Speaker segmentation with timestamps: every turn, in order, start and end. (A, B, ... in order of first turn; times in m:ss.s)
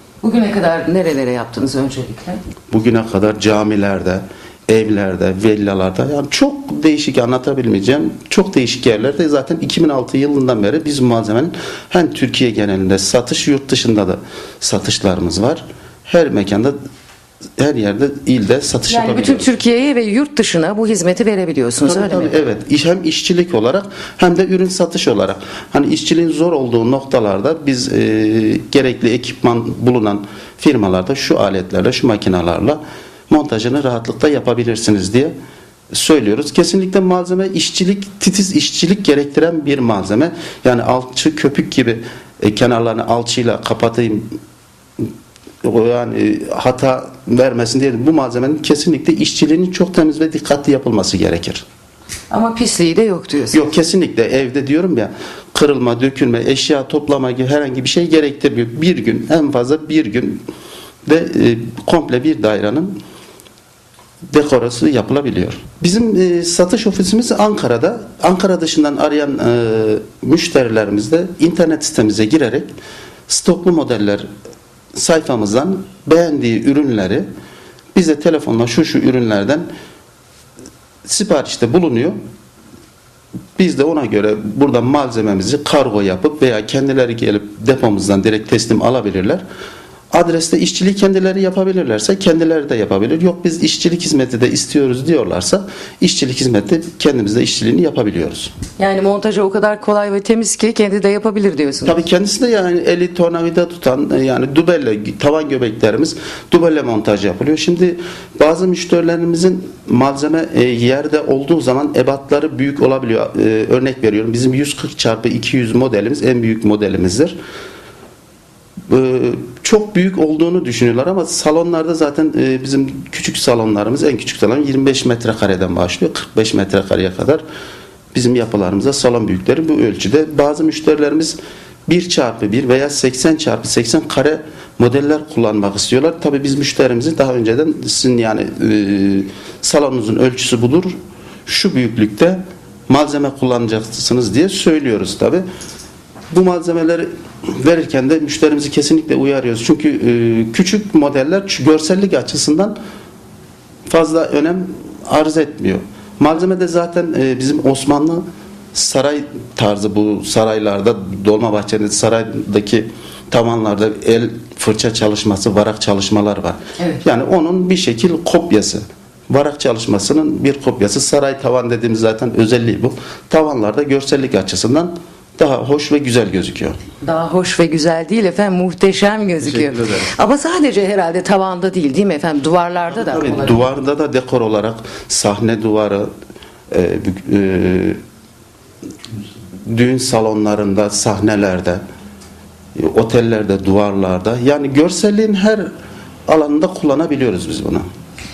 0:00.2-0:02.4 A
0:02.7-0:16.8 B
0:17.6-0:19.5 B
0:18.9-0:22.3 A
0:21.8-0:35.3 B
0:35.9-0:44.4 B
0:45.6-0:51.6 B
0:52.3-0:53.6 A
0:53.5-1:00.4 B
1:01.1-1:02.9 B
1:04.3-1:12.7 B
1:13.3-1:14.3 B
1:15.0-1:17.3 B
1:18.0-1:19.7 B
1:21.0-1:22.2 B
1:23.6-1:29.4 B
1:30.1-1:38.5 B
1:38.8-1:42.0 A
1:41.8-1:57.4 B
1:58.9-2:07.4 B
2:08.1-2:20.9 B
2:21.5-2:25.4 B
2:26.3-2:32.8 B
2:33.9-2:56.8 B
2:57.0-3:03.6 A
2:59.6-3:00.1 B
3:02.9-3:06.1 B
3:06.7-3:08.0 B
3:09.7-3:11.8 B
3:12.8-3:15.7 B
3:16.3-3:17.9 B